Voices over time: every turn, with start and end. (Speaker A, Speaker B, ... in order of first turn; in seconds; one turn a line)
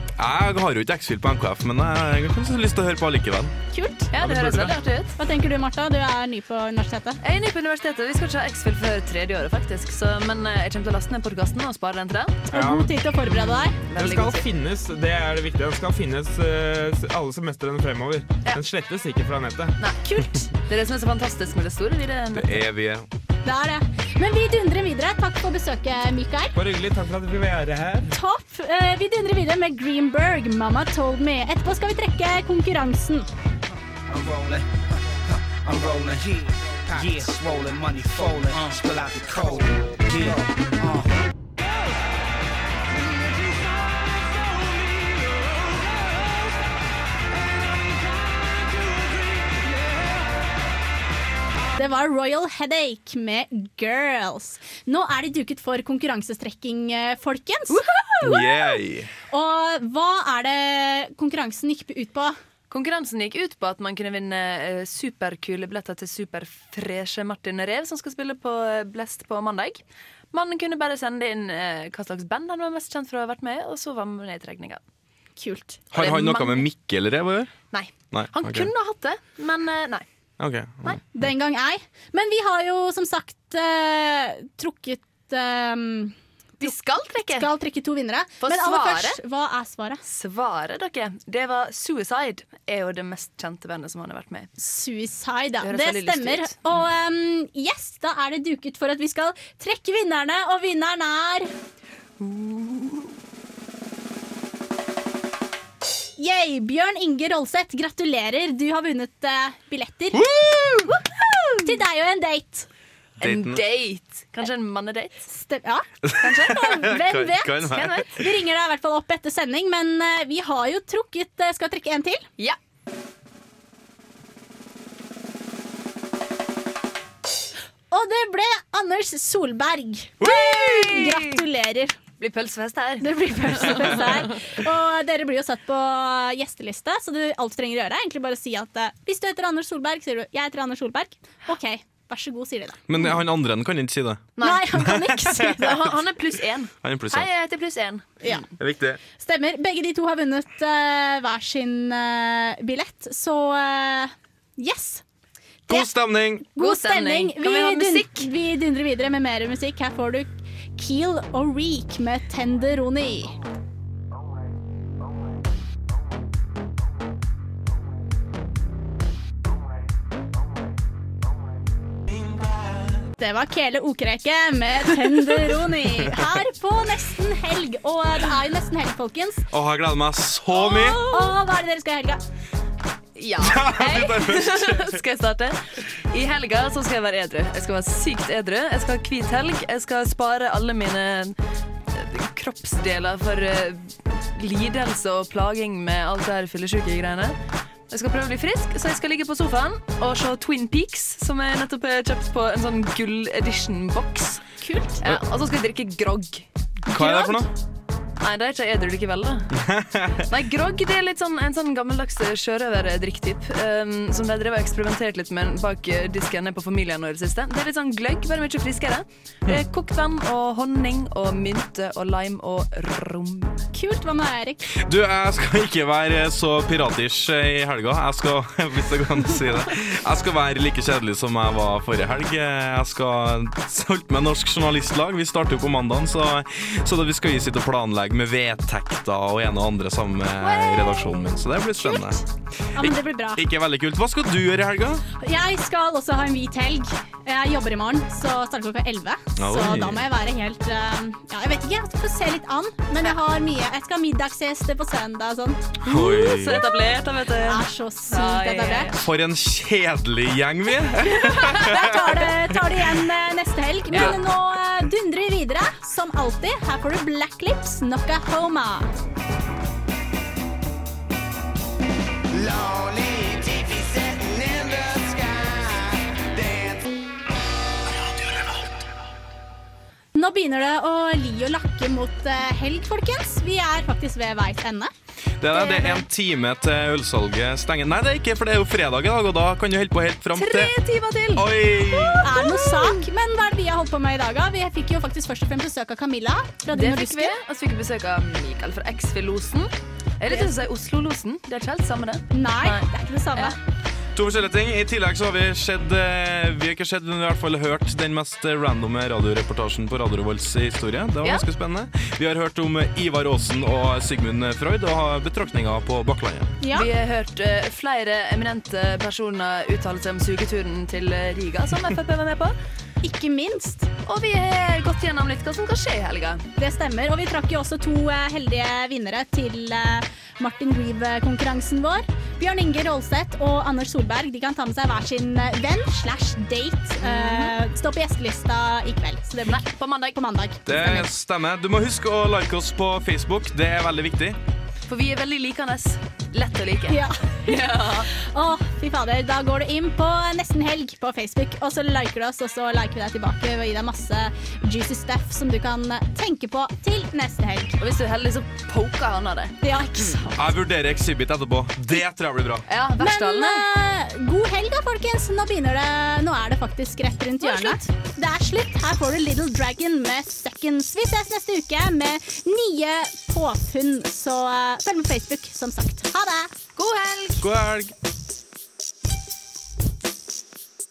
Speaker A: 0.2-3.5
Speaker B: 3.7-4.1
Speaker C: 4.1-5.1
Speaker A: 4.2-4.8
Speaker B: 5.2-7.2
Speaker C: 7.2-12.5
Speaker B: 12.5-13.8
Speaker D: 12.5-12.9
Speaker C: 13.2-14.5
Speaker D: 14.0-19.8
Speaker C: 19.8-22.6
Speaker A: 22.4-23.1
Speaker B: 23.4-26.6
Speaker D: 26.6-28.1
Speaker B: 28.1-33.3
Speaker E: 34.2-34.5
Speaker E: 35.7-36.2
Speaker E: 36.9-39.7
Speaker B: 51.8-58.4
Speaker C: 57.7-58.4
Speaker A: 58.2-59.1
Speaker B: 59.3-62.4
Speaker C: 62.7-74.8
Speaker B: 75.4-75.8
Speaker A: 75.9-77.6
Speaker C: 76.0-76.7
Speaker C: 77.7-80.0
Speaker A: 78.1-78.7
Speaker A: 80.4-81.0
Speaker B: 81.1-86.8
Speaker C: 86.6-87.5
Speaker B: 87.3-90.0
Speaker C: 88.4-89.2
Speaker C: 90.0-94.5
Speaker B: 94.6-101.5
Speaker C: 95.6-96.7
Speaker C: 102.2-103.1
Speaker B: 106.2-110.2
Speaker A: 110.1-110.9
Speaker C: 111.2-111.5
Speaker B: 111.6-112.7
Speaker A: 113.2-113.6
Speaker C: 113.2-115.3
Speaker B: 115.3-115.8
Speaker A: 116.1-118.1
Speaker C: 116.2-116.8
Speaker B: 116.5-122.3
Speaker C: 117.7-118.1
Speaker B: 127.9-132.0
Speaker C: 130.2-131.4
Speaker C: 132.2-134.3
Speaker B: 133.0-142.8
Speaker A: 142.9-144.3
Speaker C: 144.4-144.7
Speaker B: 144.4-145.7
Speaker A: 144.8-145.7
Speaker C: 145.6-148.4
Speaker A: 146.8-147.3
Speaker A: 148.6-149.0
Speaker B: 149.2-155.0
Speaker A: 155.7-156.5
Speaker B: 156.6-163.3
Speaker C: 156.6-158.3
Speaker B: 173.2-179.4
Speaker A: 179.5-181.0
Speaker B: 180.5-182.2
Speaker C: 183.2-191.4
Speaker A: 183.4-184.9
Speaker C: 191.9-197.4
Speaker C: 197.9-204.5
Speaker B: 204.6-204.9
Speaker C: 205.0-207.4
Speaker A: 206.9-207.5
Speaker C: 208.2-209.5
Speaker A: 209.6-210.2
Speaker C: 210.3-223.6
Speaker B: 223.7-224.6
Speaker A: 224.7-242.2
Speaker B: 240.4-241.3
Speaker B: 241.8-242.2
Speaker B: 242.8-243.4
Speaker A: 242.8-245.0
Speaker B: 245.2-256.8
Speaker A: 249.4-250.1
Speaker A: 255.8-256.6
Speaker C: 255.9-259.0
Speaker B: 257.5-259.0
Speaker A: 259.0-262.1
Speaker B: 261.3-268.9
Speaker C: 263.9-264.2
Speaker E: 272.3-276.9
Speaker B: 280.1-284.9
Speaker A: 285.4-290.7
Speaker C: 285.5-286.0
Speaker C: 290.4-293.1
Speaker A: 291.4-292.3
Speaker B: 292.2-297.3
Speaker C: 296.7-303.6
Speaker B: 302.3-303.6
Speaker A: 304.1-316.5
Speaker B: 316.6-316.9
Speaker C: 316.7-322.6
Speaker B: 323.0-323.9
Speaker C: 324.1-326.4
Speaker B: 326.6-341.0
Speaker C: 337.0-337.5
Speaker C: 339.5-340.2
Speaker A: 340.7-344.4
Speaker C: 344.9-348.1
Speaker B: 346.9-357.8
Speaker C: 357.8-360.2
Speaker B: 359.6-360.3
Speaker A: 360.4-362.7
Speaker C: 362.7-363.6
Speaker B: 363.0-376.6
Speaker C: 367.4-367.9
Speaker C: 376.8-377.5
Speaker A: 377.4-377.9